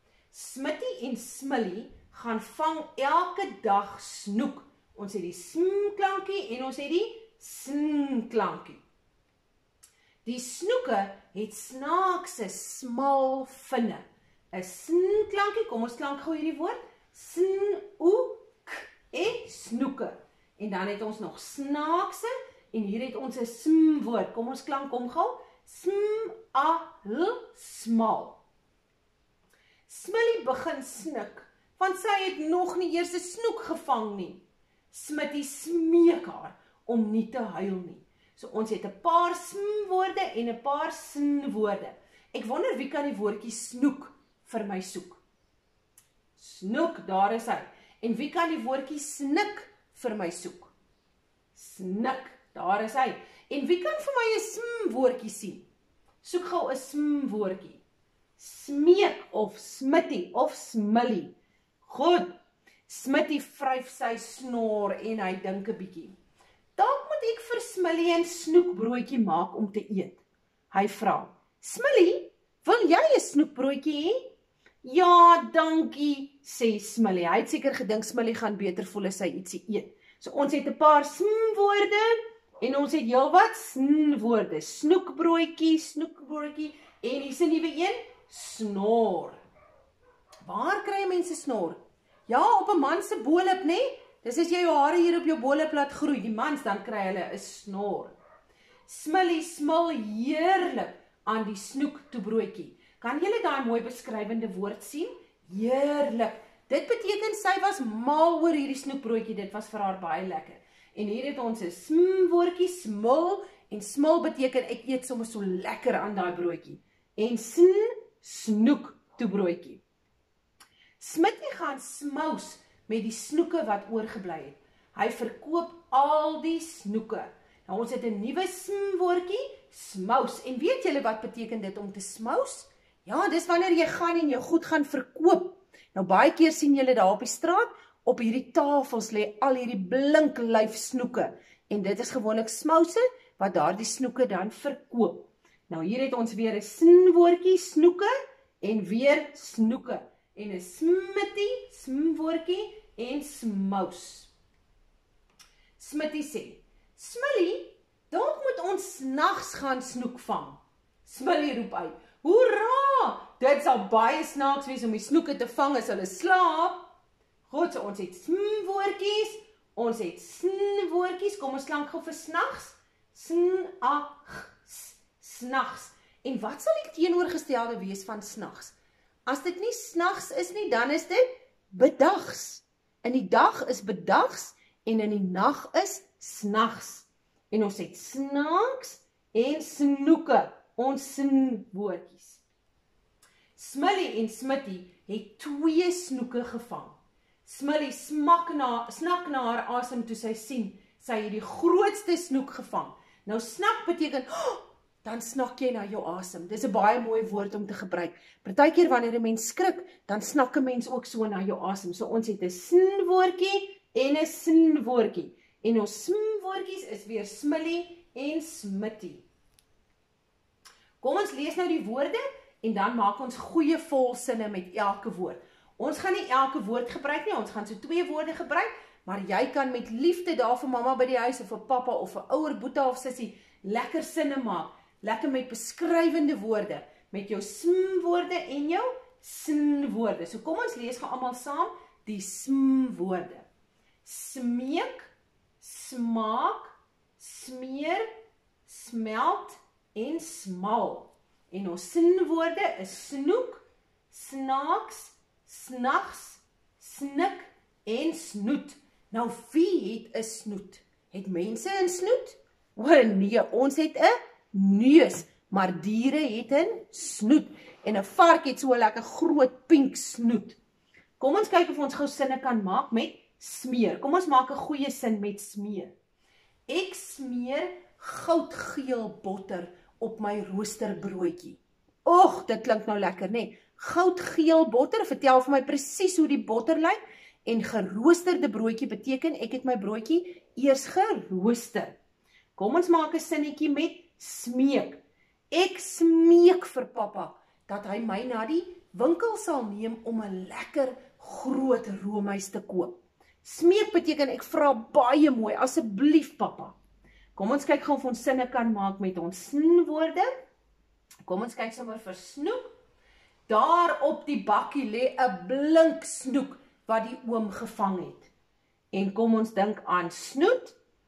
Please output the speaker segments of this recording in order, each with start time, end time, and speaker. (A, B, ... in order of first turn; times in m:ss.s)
0:00.3-0:08.8 A
0:10.2-0:28.4 A
0:29.9-0:45.2 A
0:46.4-0:50.7 A
0:51.5-0:55.7 A
0:56.2-0:57.8 A
0:58.4-1:02.4 A
1:02.9-1:06.2 A
1:06.8-1:10.2 A
1:10.7-1:14.3 A
1:14.8-1:29.4 A
1:30.4-1:38.1 A
1:38.9-1:59.8 A
2:01.0-2:28.1 A
2:28.6-2:34.3 A
2:35.8-2:46.9 A
2:47.5-2:58.7 A
2:59.2-3:12.4 A
3:13.6-3:39.2 A
3:41.0-4:03.4 A
4:04.0-4:08.1 A
4:08.6-4:30.6 A
4:31.2-4:35.9 A
4:36.7-4:52.0 A
4:52.6-5:06.8 A
5:07.4-5:10.3 A
5:11.2-5:12.6 A
5:13.5-5:18.3 A
5:18.9-5:20.8 A